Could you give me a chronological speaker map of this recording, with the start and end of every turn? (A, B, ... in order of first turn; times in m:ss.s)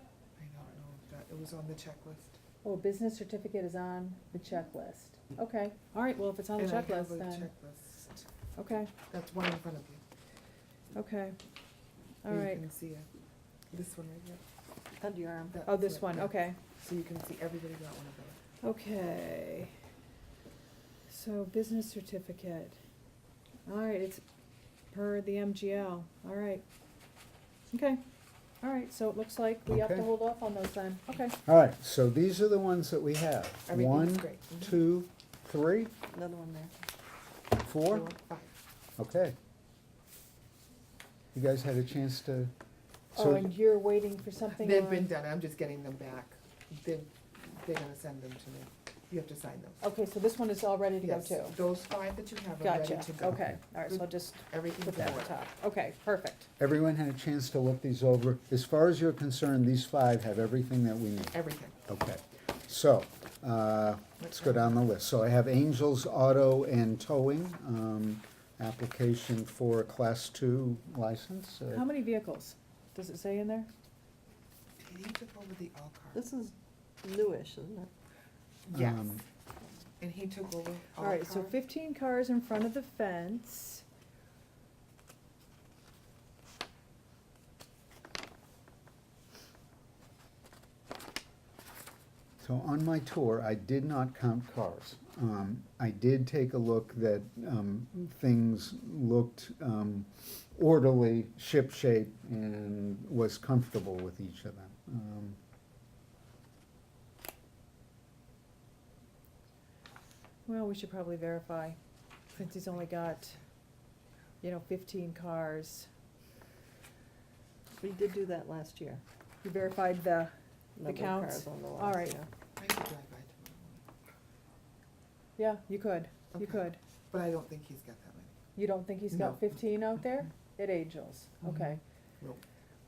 0:00.4-0:02.4 A
0:02.6-0:07.5 B
0:06.6-0:08.3 A
0:08.6-0:08.9 B
0:09.1-0:10.0 A
0:10.9-0:11.4 B
0:12.2-0:12.6 B
0:12.2-0:13.1 A
0:13.7-0:14.5 A
0:15.0-0:15.6 C
0:15.5-0:18.4 A
0:15.6-0:16.6 B
0:18.6-0:19.7 B
0:21.1-0:22.8 B
0:23.6-0:24.2 B
0:24.9-0:26.6 B
0:27.7-0:28.0 B
0:28.6-0:31.4 B
0:29.7-0:30.1 D
0:31.4-0:35.9 D
0:33.7-0:34.8 A
0:36.1-0:36.7 C
0:37.6-0:38.1 D
0:37.9-0:38.6 A
0:39.0-0:39.4 D
0:41.3-0:42.5 D
0:43.1-0:43.5 D
0:43.2-0:45.1 B
0:44.4-0:49.8 A
0:49.8-0:51.6 B
0:51.0-0:55.4 A
0:52.6-0:56.5 B
0:53.2-0:53.6 D
0:56.6-1:01.4 D
1:01.3-1:01.8 A
1:01.9-1:11.9 D
1:04.2-1:04.7 A
1:11.7-1:13.7 B
1:14.8-1:16.2 A
1:16.1-1:17.9 C
1:18.7-1:19.2 A
1:18.7-1:19.2 D
1:20.0-1:21.6 A
1:21.0-1:23.8 B
1:32.4-1:45.4 D
1:50.4-1:51.8 B
1:52.4-1:53.4 B
1:54.4-1:55.9 B
1:57.8-1:59.0 C
1:59.4-2:02.2 B
2:00.8-2:02.3 C
2:02.6-2:03.8 A
2:05.4-2:06.8 B
2:06.3-2:08.3 A
2:08.6-2:11.8 B
2:09.1-2:09.6 A
2:11.4-2:12.4 A